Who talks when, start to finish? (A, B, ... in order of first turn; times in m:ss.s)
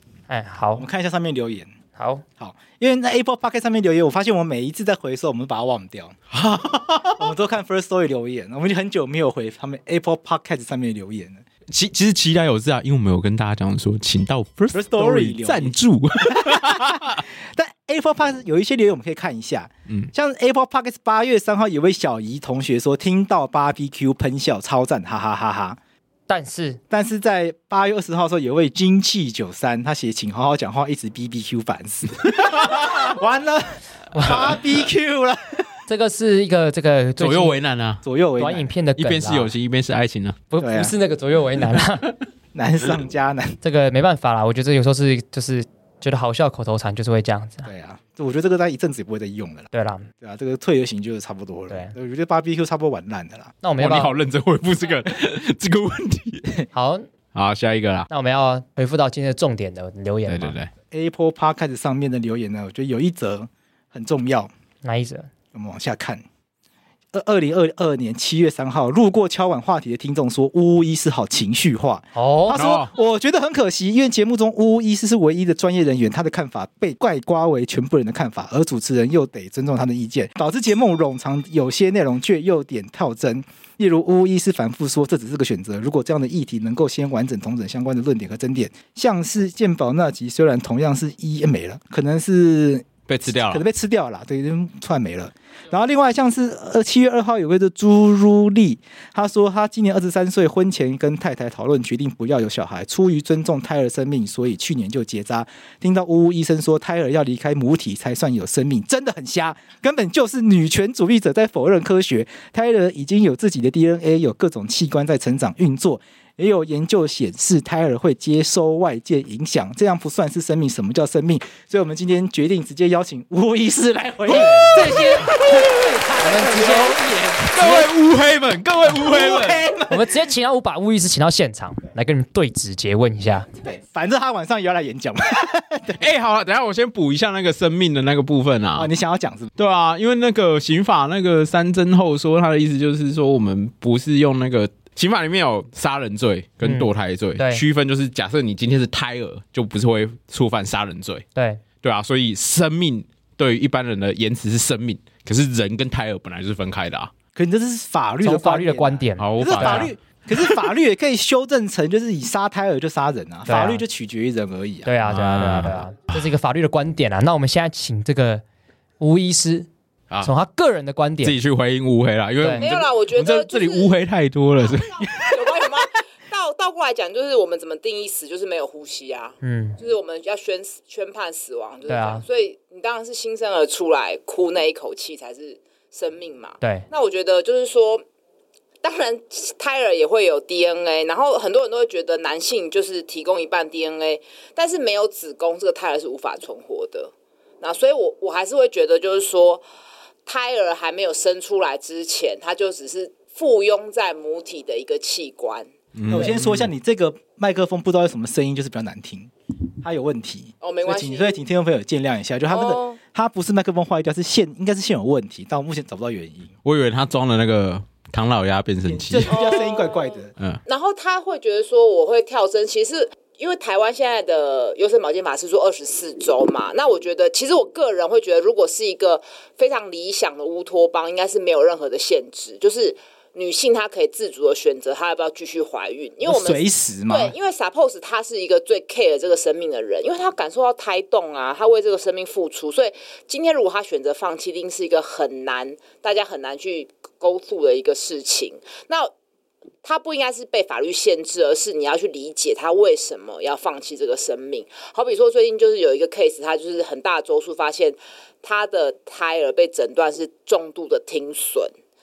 0:00.3-0:00.8 A
0:00.8-0:01.7 B
0:02.0-0:02.2 A
0:02.4-0:06.2 B
0:06.3-0:07.2 C
0:07.1-0:11.4 B
0:11.7-0:17.2 C
0:14.7-0:25.8 B
0:26.3-0:26.8 A
0:26.9-0:35.8 B
0:32.4-0:33.0 C
0:34.1-0:34.4 A
0:35.9-0:37.6 A
0:37.2-0:38.0 C
0:38.0-0:38.7 B
0:38.4-0:39.5 A
0:39.0-0:40.4 C
0:40.5-0:42.1 A
0:40.6-0:40.9 B
0:42.5-0:43.6 B
0:43.6-0:47.7 A
0:47.6-0:49.7 B
0:49.7-0:50.1 A
0:50.2-0:53.5 B
0:51.7-0:51.9 A
0:53.6-0:54.1 A
0:53.8-0:56.6 C
0:56.7-0:57.1 A
0:57.3-0:58.1 C
0:58.1-1:00.6 A
1:00.3-1:00.7 C
1:00.9-1:04.5 B
1:04.8-1:05.3 A
1:05.5-1:06.2 B
1:07.1-2:07.8 B
1:12.1-1:12.6 A
1:12.5-1:12.9 C
1:33.1-1:33.6 C
2:04.3-2:05.4 A
2:06.2-2:07.9 A
2:07.5-2:09.6 C
2:08.8-2:10.2 B
2:09.9-2:13.5 A
2:13.6-2:16.0 B
2:16.0-2:18.9 C
2:18.7-2:19.5 B
2:19.6-2:31.2 C
2:26.6-2:27.6 A
2:31.3-2:31.6 A
2:31.8-2:37.1 C
2:37.3-2:44.9 B
2:38.2-2:39.9 A
2:39.2-2:39.9 C
2:43.5-2:43.8 A
2:44.8-2:48.4 A
2:45.0-2:45.9 C
2:49.0-2:49.7 A
2:50.2-2:51.4 A
2:51.2-2:55.6 C
2:52.4-2:52.6 A
2:52.6-2:53.9 D
2:54.7-3:08.0 D
2:59.4-2:59.8 A
3:01.9-3:02.2 A
3:08.8-3:19.6 D
3:20.2-3:26.3 D
3:26.0-3:26.7 C
3:26.1-3:36.5 B
3:30.6-3:31.4 D
3:32.5-3:33.0 D
3:36.6-3:39.4 C
3:38.8-3:40.3 B
3:39.3-4:09.1 D
3:56.2-3:57.4 B
4:09.8-4:21.7 D